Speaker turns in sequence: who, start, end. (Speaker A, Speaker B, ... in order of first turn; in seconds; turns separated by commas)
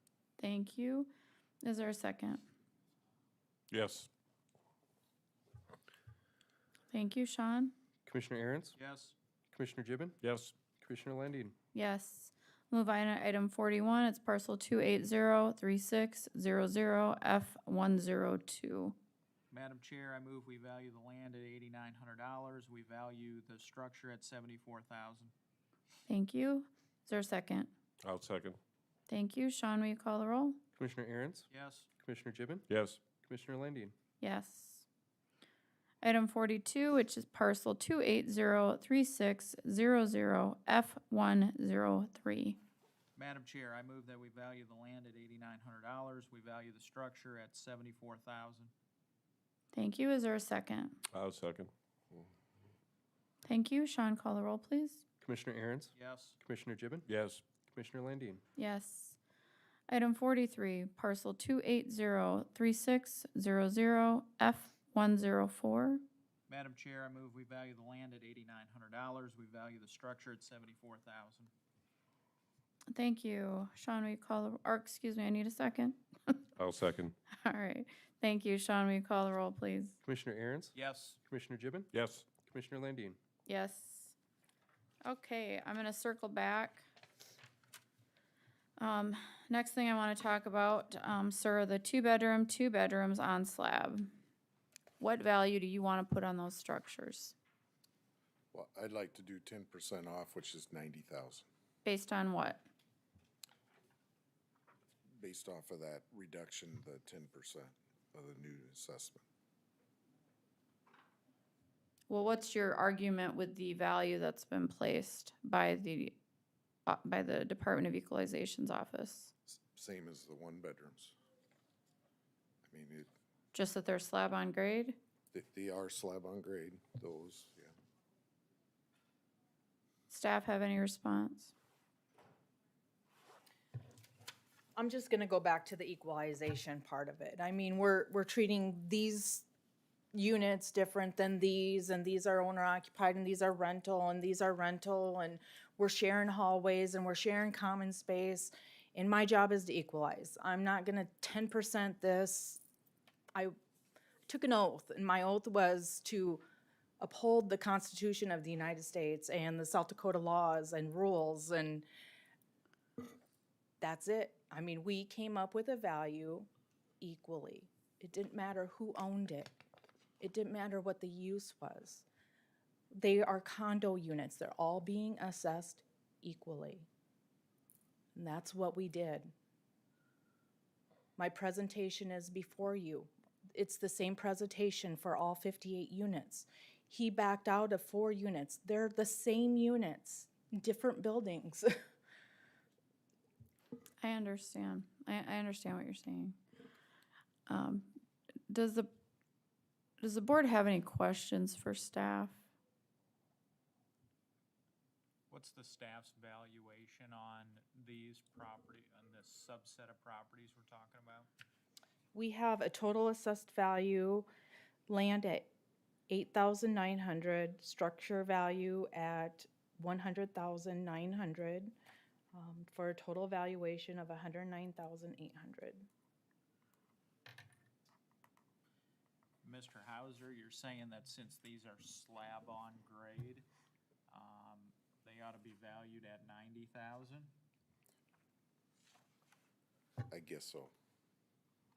Speaker A: 0.4-1.1, Speaker A: 1.6-2.4, Speaker B: 3.7-4.1, Speaker A: 6.9-7.7, Speaker C: 8.1-8.8, Speaker D: 8.8-9.1, Speaker C: 9.5-10.2, Speaker B: 10.2-10.6, Speaker C: 10.7-11.5, Speaker A: 11.7-18.9, Speaker D: 19.5-25.3, Speaker A: 26.1-27.7, Speaker B: 28.0-28.6, Speaker A: 29.1-30.6, Speaker C: 30.7-31.5, Speaker D: 31.5-31.9, Speaker C: 32.0-32.6, Speaker B: 32.7-33.0, Speaker C: 33.2-33.9, Speaker A: 34.2-34.9, Speaker A: 36.0-42.6, Speaker D: 43.1-48.7, Speaker A: 49.7-51.0, Speaker B: 51.1-52.2, Speaker A: 53.4-55.0, Speaker C: 55.2-57.0, Speaker D: 55.9-56.4, Speaker B: 57.1-57.4, Speaker C: 57.7-58.4, Speaker A: 58.6-59.2, Speaker A: 59.9-66.0, Speaker D: 66.5-71.5, Speaker A: 72.9-76.4, Speaker B: 76.6-77.1, Speaker A: 77.3-80.0, Speaker C: 80.0-80.7, Speaker D: 80.7-81.2, Speaker C: 81.2-83.2, Speaker B: 81.9-82.3, Speaker A: 83.5-84.1, Speaker A: 85.0-86.8, Speaker A: 88.8-94.1, Speaker A: 95.0-97.3, Speaker E: 98.5-101.5, Speaker A: 101.8-102.6, Speaker E: 105.2-109.2, Speaker A: 112.1-116.2, Speaker A: 116.8-119.3, Speaker E: 119.5-121.2, Speaker E: 122.6-123.1, Speaker A: 123.5-125.0, Speaker E: 125.3-127.7, Speaker A: 130.1-131.5, Speaker F: 134.8-139.5, Speaker F: 140.1-152.6, Speaker F: 154.3-156.4, Speaker F: 157.0-161.8, Speaker F: 163.8-166.5, Speaker F: 167.0-169.6, Speaker F: 170.2-172.0, Speaker F: 172.9-176.9, Speaker F: 178.1-179.3, Speaker F: 181.2-191.7, Speaker A: 194.0-196.4, Speaker A: 197.5-197.9, Speaker A: 198.5-198.9, Speaker A: 200.0-202.4, Speaker D: 205.3-211.3, Speaker F: 212.1-214.3, Speaker F: 214.9-215.5, Speaker F: 216.1-221.7, Speaker F: 222.3-225.9, Speaker D: 229.4-233.5, Speaker D: 234.1-237.3, Speaker E: 240.1-240.7